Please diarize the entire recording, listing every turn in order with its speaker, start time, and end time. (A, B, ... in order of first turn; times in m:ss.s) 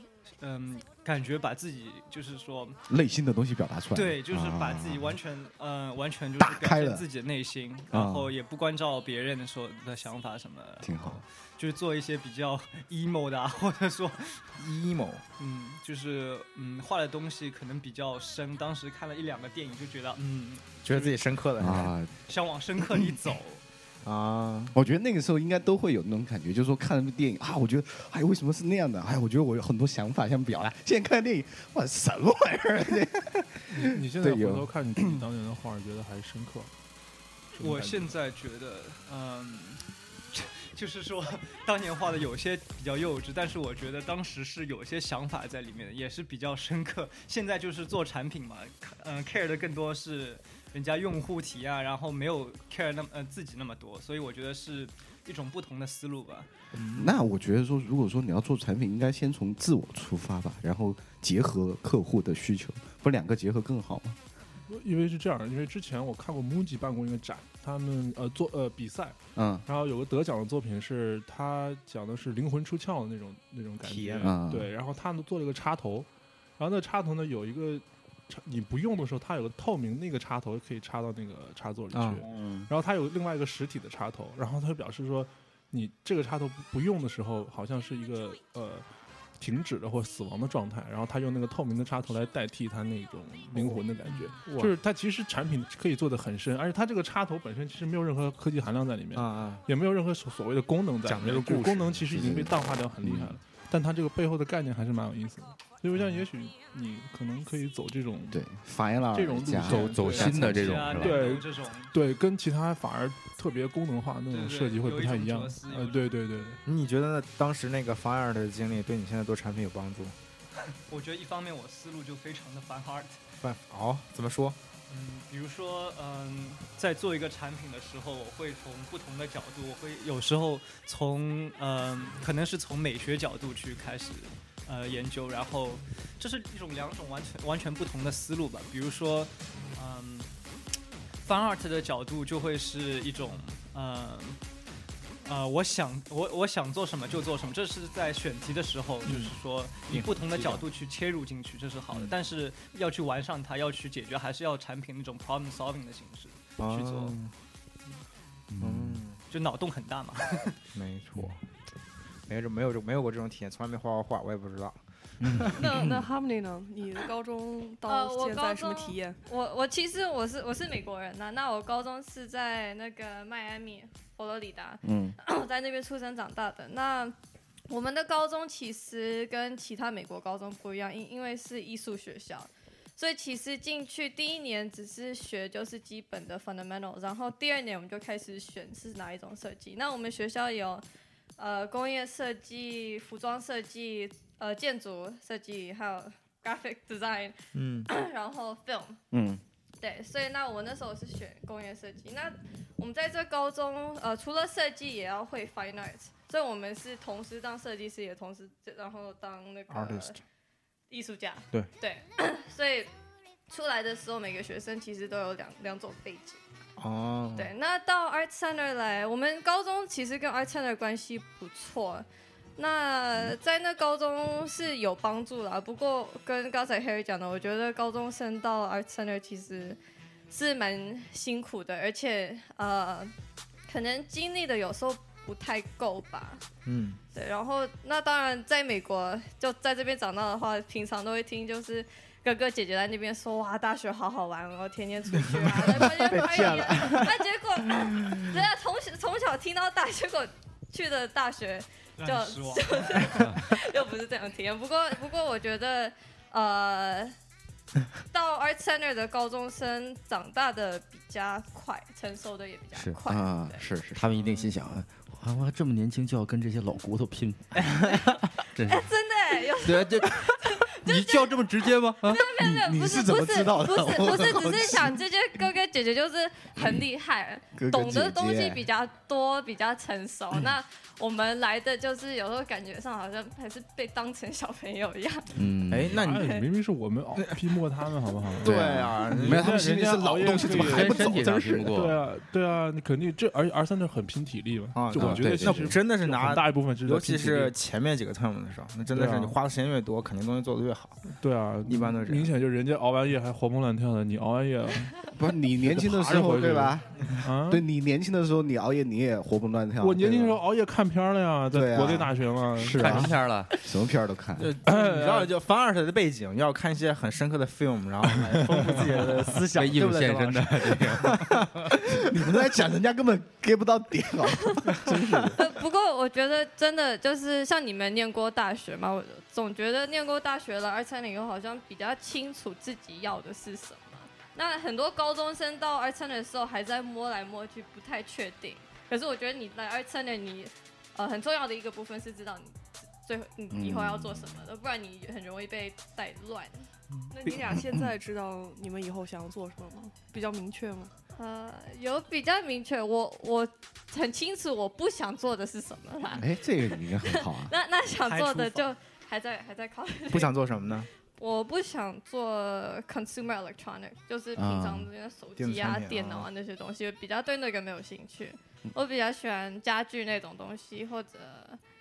0:00.4-0:02.8 A
0:02.9-0:05.2 B
0:03.9-0:14.5 A
0:06.4-0:07.0 B
0:07.9-0:08.3 B
0:10.8-0:11.2 B
0:14.6-0:15.2 C
0:15.4-0:21.3 A
0:20.8-0:21.9 C
0:21.6-0:22.1 B
0:22.3-0:23.6 A
0:24.0-0:24.8 C
0:24.7-0:35.2 B
0:33.7-0:36.7 D
0:37.6-0:38.1 D
0:37.6-0:56.5 A
0:56.7-0:57.1 C
0:56.9-1:04.2 B
1:04.7-1:28.9 D
1:09.4-1:09.6 B
1:13.8-1:14.4 C
1:14.2-1:14.7 B
1:21.9-1:22.3 C
1:29.4-1:48.4 D
1:33.5-1:34.7 C
1:39.2-1:39.6 C
1:41.0-1:42.2 C
1:42.1-1:43.4 B
1:48.3-1:50.9 B
1:49.1-1:56.6 D
1:49.6-1:51.3 E
1:50.5-1:51.9 A
1:54.3-1:56.1 A
1:56.7-2:00.2 C
2:00.9-2:03.2 A
2:03.4-2:04.6 C
2:04.9-2:20.3 A
2:21.2-2:24.4 A
2:25.2-2:37.2 A
2:29.0-2:29.3 C
2:29.9-2:30.6 C
2:36.6-2:37.3 C
2:38.6-2:39.0 B
2:38.6-2:39.2 C
2:39.3-2:40.6 A
2:40.8-2:41.4 C
2:42.3-2:44.8 C
2:45.2-2:45.6 E
2:45.5-2:49.2 F
2:47.9-2:57.2 G
2:54.8-2:55.2 B
2:57.7-3:10.8 G
3:11.4-3:17.4 G
3:17.5-3:17.9 C
3:17.9-3:19.0 G
3:19.1-3:19.4 B
3:19.8-3:30.2 G
3:29.7-3:30.2 C
3:30.9-3:32.9 G
3:33.5-3:36.4 G
3:36.8-3:37.5 C
3:37.4-3:42.1 G
3:42.6-3:49.8 G
3:50.3-3:53.1 G
3:53.7-3:56.4 G
3:56.7-3:57.0 C
3:57.1-4:17.2 G
4:05.3-4:07.2 C
4:12.0-4:13.3 A
4:18.1-4:23.6 G
4:23.1-4:24.4 B
4:23.6-4:28.9 E
4:28.7-4:31.4 G
4:29.6-4:32.2 E
4:32.0-4:45.4 G
4:32.3-4:35.0 B
4:37.6-4:38.7 B
4:45.4-4:46.0 E
4:45.7-4:46.2 C
4:45.9-4:51.1 D
4:46.0-4:46.4 G
4:47.2-4:47.4 C
4:48.4-4:49.6 C
4:48.4-4:51.7 B
4:50.5-4:52.0 E
4:51.7-4:57.5 D
4:54.8-5:01.0 C
4:55.0-4:55.7 B
4:55.0-4:55.4 E
4:58.9-4:59.4 D
5:01.1-5:05.1 D
5:01.6-5:02.3 C
5:05.2-5:10.4 B
5:05.6-5:07.6 D
5:09.8-5:13.1 D
5:11.5-5:14.5 B
5:12.7-5:13.5 E
5:14.4-5:22.0 C
5:14.7-5:15.3 D
5:18.3-5:18.8 D
5:19.5-5:21.5 E
5:21.9-5:25.4 B
5:24.8-5:25.4 C
5:25.4-5:46.7 G
5:43.5-5:44.4 B
5:47.1-5:50.9 F
5:47.3-5:47.9 B
5:51.2-6:00.3 G
5:56.1-5:57.5 B
5:58.0-5:58.7 A
6:00.1-6:00.9 C
6:01.2-6:11.6 G
6:04.4-6:04.9 B
6:05.4-6:06.3 C